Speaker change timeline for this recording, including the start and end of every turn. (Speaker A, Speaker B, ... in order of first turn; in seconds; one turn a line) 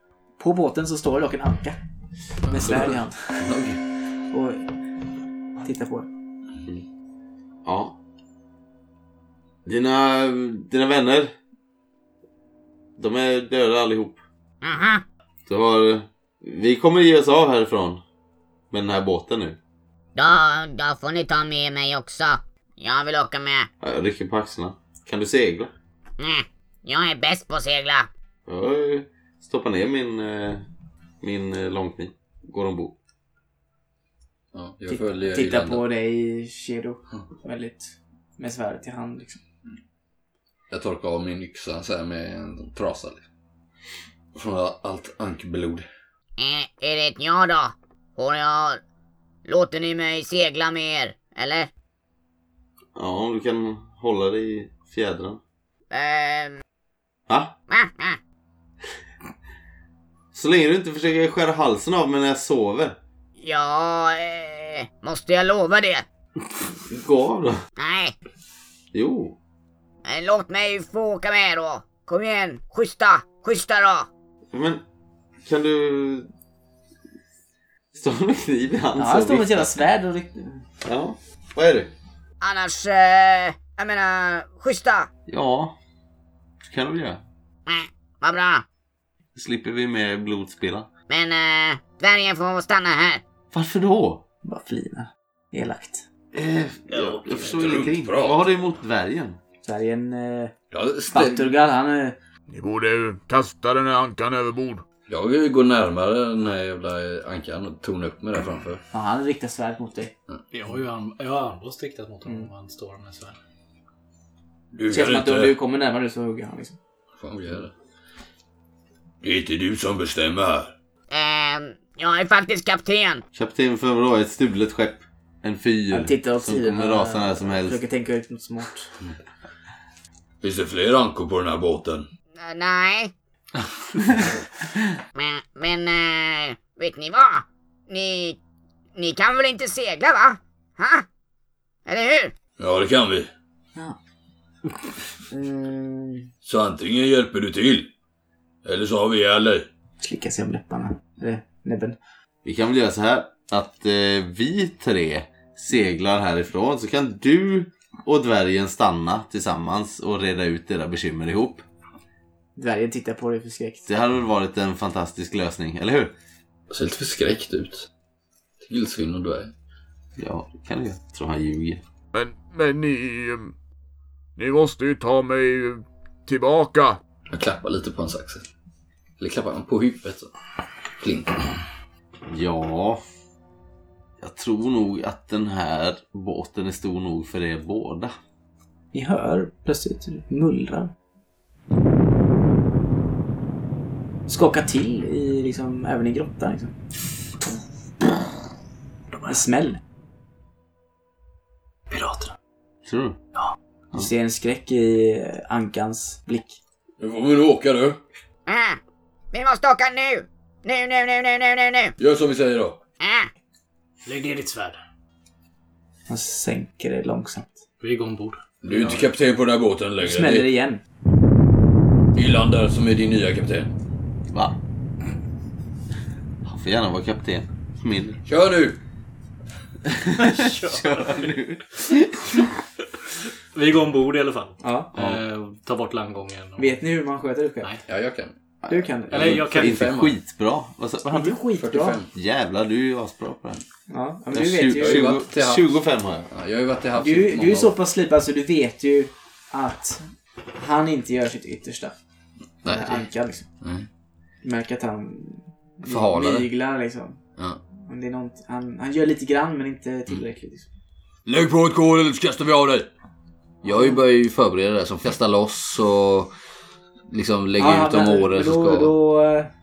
Speaker A: 0.4-1.8
Speaker A: 2.4-3.5
Speaker B: 2.4-3.8
Speaker A: 4.3-4.7
Speaker A: 5.6-6.1
Speaker C: 7.7-8.0
Speaker C: 9.7-11.3
Speaker C: 13.0-14.2
Speaker D: 14.6-15.0
Speaker C: 15.5-18.0
Speaker C: 18.7-19.6
Speaker D: 20.2-23.7
Speaker C: 23.8-25.7
Speaker D: 26.2-28.1
Speaker C: 28.5-30.6
Speaker C: 31.2-33.0
Speaker B: 34.5-35.9
Speaker A: 34.9-39.4
Speaker B: 40.7-43.2
Speaker B: 44.3-45.9
Speaker D: 46.4-48.8
Speaker D: 49.5-51.7
Speaker C: 53.0-55.4
Speaker D: 55.9-56.6
Speaker C: 57.3-57.5
Speaker D: 57.7-58.2
Speaker C: 60.3-63.0
Speaker D: 63.4-66.0
Speaker C: 66.8-67.6
Speaker D: 67.8-68.2
Speaker C: 68.9-69.4
Speaker D: 70.0-74.1
Speaker C: 74.5-74.8
Speaker C: 75.5-76.3
Speaker C: 77.9-79.7
Speaker A: 79.0-80.6
Speaker C: 80.8-81.9
Speaker D: 82.4-85.1
Speaker C: 85.3-85.8
Speaker C: 86.6-87.2
Speaker D: 87.7-88.6
Speaker C: 89.3-90.9
Speaker D: 91.1-93.2
Speaker C: 93.5-94.2
Speaker A: 94.4-96.1
Speaker C: 96.3-99.4
Speaker E: 96.9-97.9
Speaker B: 97.4-98.5
Speaker A: 99.6-100.5
Speaker B: 100.7-101.5
Speaker A: 101.1-102.2
Speaker F: 102.5-104.8
Speaker B: 105.1-108.8
Speaker A: 108.9-110.1
Speaker E: 110.5-113.4
Speaker B: 114.7-115.6
Speaker A: 114.9-116.8
Speaker B: 117.2-117.7
Speaker B: 119.2-120.7
Speaker D: 121.1-123.2
Speaker C: 123.3-127.8
Speaker A: 125.9-128.9
Speaker B: 130.4-132.1
Speaker D: 132.4-133.1
Speaker D: 135.2-138.4
Speaker D: 139.0-141.1
Speaker D: 141.9-142.3
Speaker B: 142.6-143.3
Speaker A: 145.3-146.3
Speaker B: 146.4-147.9
Speaker B: 148.6-149.7
Speaker A: 150.0-152.0
Speaker C: 152.4-161.6
Speaker A: 162.6-163.9
Speaker C: 163.9-166.1
Speaker B: 166.7-167.9
Speaker B: 168.6-169.5
Speaker C: 170.2-171.8
Speaker F: 172.1-173.5
Speaker F: 174.4-177.0
Speaker B: 177.3-178.5
Speaker B: 179.2-180.3
Speaker B: 181.0-181.6
Speaker C: 182.3-183.0
Speaker C: 184.2-188.2
Speaker A: 188.9-190.9
Speaker A: 194.3-196.8
Speaker E: 199.1-199.4
Speaker A: 199.3-199.8
Speaker E: 201.9-202.3
Speaker C: 202.9-203.2
Speaker A: 203.9-206.6
Speaker B: 207.0-208.0
Speaker D: 208.5-208.8
Speaker D: 209.3-211.9
Speaker B: 212.0-212.8
Speaker D: 213.0-213.3
Speaker E: 214.1-214.8
Speaker A: 216.1-217.6
Speaker E: 217.8-218.4
Speaker B: 218.6-220.5
Speaker A: 220.0-220.8
Speaker B: 222.1-223.7
Speaker C: 224.3-224.6
Speaker C: 226.4-228.2
Speaker B: 228.3-228.8
Speaker C: 229.9-232.5
Speaker E: 230.2-231.4
Speaker E: 233.5-236.8
Speaker A: 234.6-234.9
Speaker A: 236.6-237.8
Speaker B: 237.9-238.3
Speaker C: 238.7-241.4
Speaker A: 238.7-239.4
Speaker E: 239.1-239.9
Speaker B: 239.1-240.2
Speaker A: 241.1-242.0
Speaker B: 241.6-242.1
Speaker C: 242.1-243.6
Speaker A: 243.9-245.2
Speaker C: 244.3-246.3
Speaker B: 244.7-247.8
Speaker A: 247.0-251.9
Speaker B: 252.6-253.1
Speaker A: 252.7-253.5
Speaker B: 253.6-253.9
Speaker A: 254.4-257.2
Speaker B: 255.9-256.5
Speaker A: 257.9-260.7
Speaker B: 261.2-262.9
Speaker B: 263.6-266.3
Speaker B: 267.1-268.9
Speaker A: 267.6-269.5